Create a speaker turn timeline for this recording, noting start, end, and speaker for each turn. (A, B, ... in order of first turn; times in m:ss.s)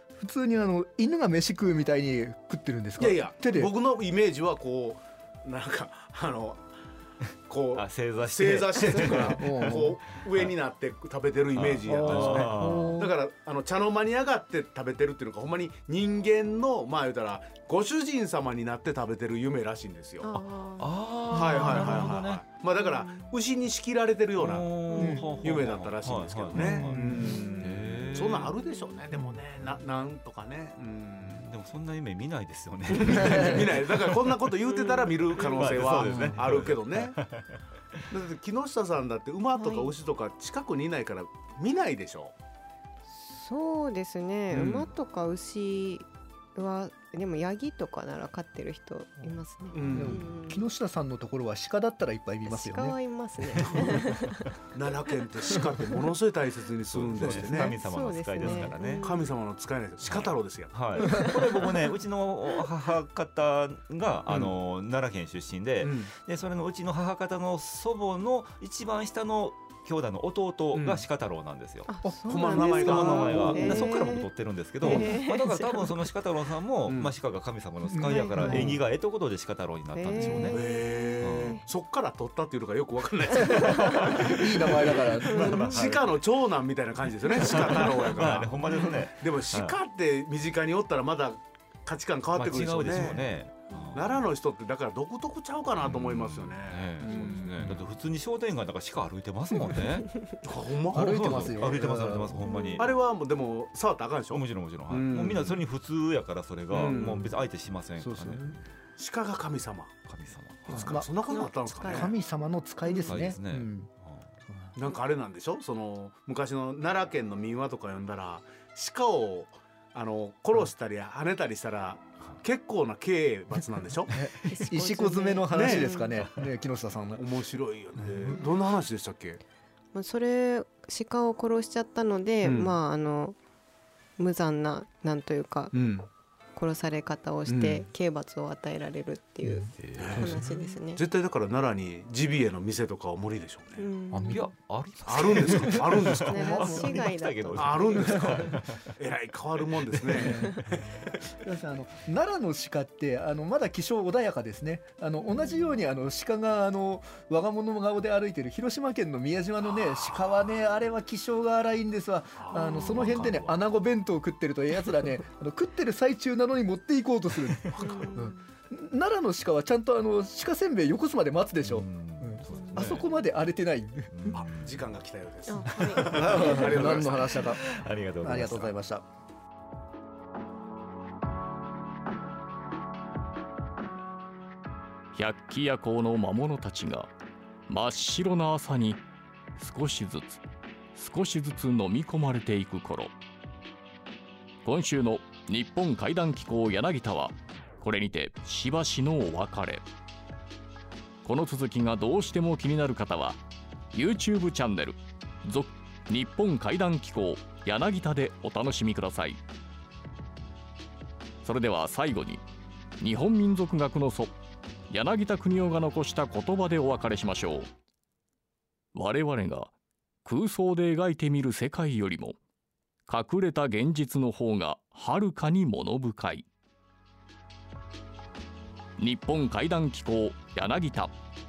0:00.2-0:03.7 A
0:03.0-0:06.7 B
0:07.5-0:20.3 B
0:07.7-0:10.5 C
0:09.2-0:10.0 A
0:11.5-0:13.0 C
0:11.9-0:13.1 A
0:20.2-0:22.2 D
0:20.3-0:22.5 C
0:21.3-0:31.5 B
0:22.7-0:23.3 D
0:24.4-0:28.5 C
0:24.9-0:25.6 D
0:25.0-0:25.2 A
0:26.6-0:27.4 A
0:26.8-0:27.8 D
0:31.2-0:34.3 C
0:32.9-0:37.2 B
0:33.1-0:33.7 A
0:34.6-0:35.8 D
0:35.3-0:38.1 C
0:36.0-0:36.4 A
0:38.1-0:42.3 B
0:39.6-0:39.9 D
0:43.1-0:50.6 D
0:44.5-0:44.9 B
0:49.7-0:50.4 B
0:49.8-0:50.2 C
0:49.9-0:53.0 A
0:52.4-0:54.5 D
0:53.5-0:54.5 C
0:53.6-0:53.9 B
0:54.7-0:57.8 B
0:55.5-0:56.0 D
0:56.9-0:59.3 C
0:57.2-0:57.7 A
0:57.5-0:59.3 D
0:58.4-1:01.3 B
1:00.0-1:11.9 C
1:01.0-1:01.9 D
1:04.3-1:04.5 B
1:05.8-1:06.1 B
1:10.7-1:11.0 B
1:11.9-1:16.1 D
1:12.0-1:13.9 A
1:12.2-1:13.8 B
1:12.5-1:20.7 C
1:14.8-1:15.1 A
1:16.8-1:17.1 B
1:17.9-1:18.8 A
1:17.9-1:18.9 D
1:19.9-1:21.6 D
1:20.2-1:33.2 B
1:21.2-1:21.6 C
1:23.3-1:24.2 D
1:23.8-1:24.2 C
1:23.9-1:25.7 A
1:24.7-1:26.2 C
1:25.4-1:25.7 D
1:27.3-1:29.8 C
1:32.3-1:34.2 C
1:33.7-1:34.0 D
1:33.9-1:37.8 B
1:35.8-1:40.2 C
1:37.0-1:37.6 D
1:37.1-1:37.5 A
1:40.4-1:42.1 B
1:40.9-1:42.5 A
1:40.9-1:42.9 C
1:42.4-1:42.9 D
1:42.8-1:45.6 B
1:44.3-1:48.6 C
1:46.7-1:47.2 B
1:46.8-1:47.1 D
1:46.9-1:47.2 A
1:48.0-1:48.6 A
1:49.0-1:50.0 B
1:50.1-1:51.0 C
1:50.6-1:52.1 B
1:50.7-1:53.9 A
1:51.2-1:52.1 D
1:52.8-1:53.3 D
1:53.0-1:54.3 C
1:54.5-1:54.7 A
1:54.8-2:04.1 B
2:04.1-2:07.2 A
2:04.4-2:06.2 D
2:05.5-2:06.0 B
2:07.1-2:09.4 B
2:08.1-2:08.4 A
2:09.9-2:13.4 D
2:12.4-2:12.8 B
2:14.2-2:15.8 D
2:15.7-2:16.1 B
2:16.5-2:21.0 D
2:17.5-2:17.9 B
2:19.4-2:19.7 A
2:19.7-2:20.4 C
2:20.0-2:23.9 B
2:23.8-2:24.6 D
2:24.1-2:24.5 A
2:24.1-2:28.9 C
2:25.0-2:26.9 B
2:25.5-2:25.8 A
2:26.3-2:28.6 D
2:26.4-2:27.1 A
2:27.5-2:30.8 B
2:30.1-2:54.3 A
2:30.2-2:30.8 D
2:35.2-2:35.8 D
2:39.6-2:40.5 B
2:42.4-2:43.6 B
2:42.5-2:43.3 D
2:47.7-2:48.2 B
2:47.8-2:48.4 D
2:51.6-2:53.1 C
2:52.5-2:53.0 D
2:54.1-2:54.8 C
2:54.3-2:57.5 B
2:55.5-2:56.9 D
2:55.6-2:58.7 C
2:55.8-2:59.0 A
3:05.1-3:07.1 E
3:07.7-3:09.0 E
3:09.6-3:10.4 E
3:10.9-3:13.1 E
3:14.6-3:19.8 E
3:21.2-3:23.4 E
3:23.9-3:29.4 E
3:31.4-3:32.4 E
3:33.0-3:34.3 E
3:34.9-3:37.7 E
3:38.9-3:39.7 E
3:40.2-3:42.4 E
3:43.1-3:46.4 E
3:49.0-3:51.1 E